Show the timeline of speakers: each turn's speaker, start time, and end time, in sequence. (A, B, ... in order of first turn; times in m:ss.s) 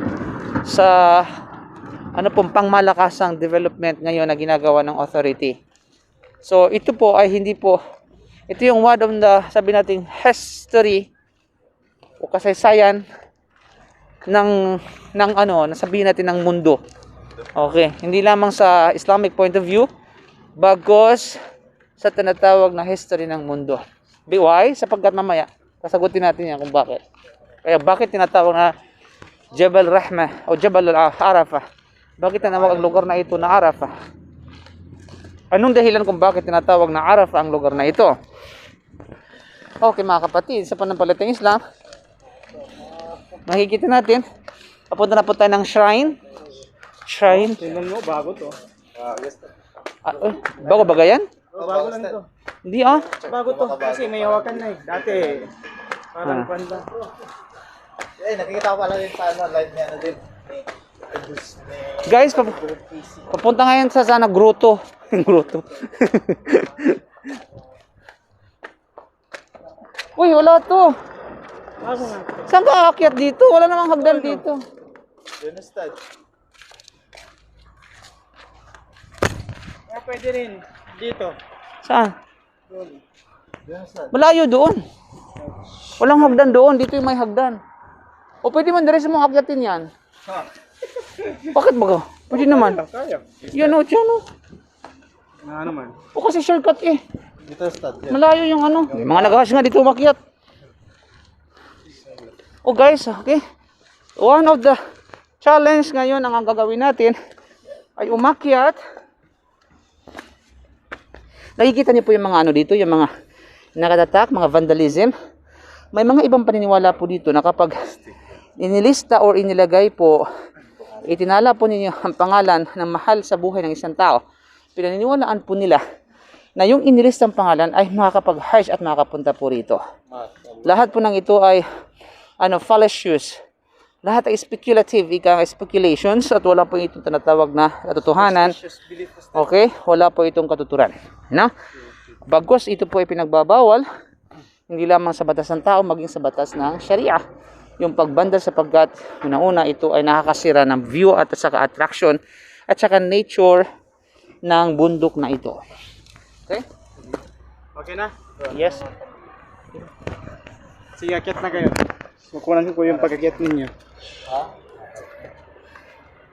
0:00.6-0:01.3 A
0:02.1-0:05.6 A
0:06.4-0:07.8 A
0:08.5-0:11.1 A
0:12.2-0:13.0 A
0:14.2-0:16.8 A
0:17.6-0:19.9 A
0:20.6-0:21.3 A
0:22.0-0:27.0 A
0:27.6-0:28.7 A
0:29.5-0:31.6 A
0:32.2-0:33.9 A
0:32.4-0:32.9 B
0:35.5-0:38.1 A
0:39.8-0:41.6 A
0:43.4-0:44.2 A
0:44.9-0:46.2 A
0:47.0-0:47.6 A
0:47.3-0:48.5 C
0:49.0-0:49.5 B
0:50.0-0:51.3 A
0:51.5-0:52.3 C
0:51.6-0:52.2 B
0:52.6-0:53.1 A
0:53.2-0:55.4 B
0:53.3-0:55.5 C
0:56.1-0:57.0 C
0:56.2-0:56.5 A
0:58.2-1:00.2 B
1:01.1-1:02.3 B
1:02.0-1:02.6 A
1:02.7-1:03.1 C
1:03.3-1:06.9 A
1:10.2-1:10.9 A
1:11.8-1:12.3 C
1:12.5-1:14.6 A
1:14.0-1:14.4 C
1:15.4-1:16.0 B
1:19.9-1:21.4 C
1:21.8-1:22.1 A
1:22.7-1:23.0 C
1:23.6-1:24.1 B
1:24.1-1:24.8 A
1:26.0-1:27.6 A
1:28.4-1:29.9 A
1:31.4-1:32.8 A
1:32.3-1:33.7 C
1:33.5-1:34.2 A
1:35.4-1:36.0 C
1:36.1-1:37.0 A
1:37.4-1:38.2 B
1:38.1-1:40.2 A
1:38.9-1:39.4 B
1:42.6-1:43.4 A
1:44.2-1:44.8 A
1:45.4-1:47.1 A
1:48.0-1:48.8 A
1:51.6-1:53.1 A
1:53.8-1:55.1 A
1:55.9-1:58.0 A
1:58.6-2:00.2 A
2:01.0-2:04.2 A
2:04.8-2:05.8 A
2:06.6-2:09.8 A
2:10.6-2:11.6 A
2:12.4-2:13.4 A
2:14.0-2:18.6 A
2:18.2-2:19.4 C
2:19.3-2:21.5 A
2:22.3-2:23.8 A
2:24.7-2:27.2 A
2:27.8-2:33.6 A
2:34.4-2:35.6 A
2:37.7-2:38.1 C
2:38.5-2:38.8 A
2:41.0-2:41.8 C
2:42.3-2:43.7 C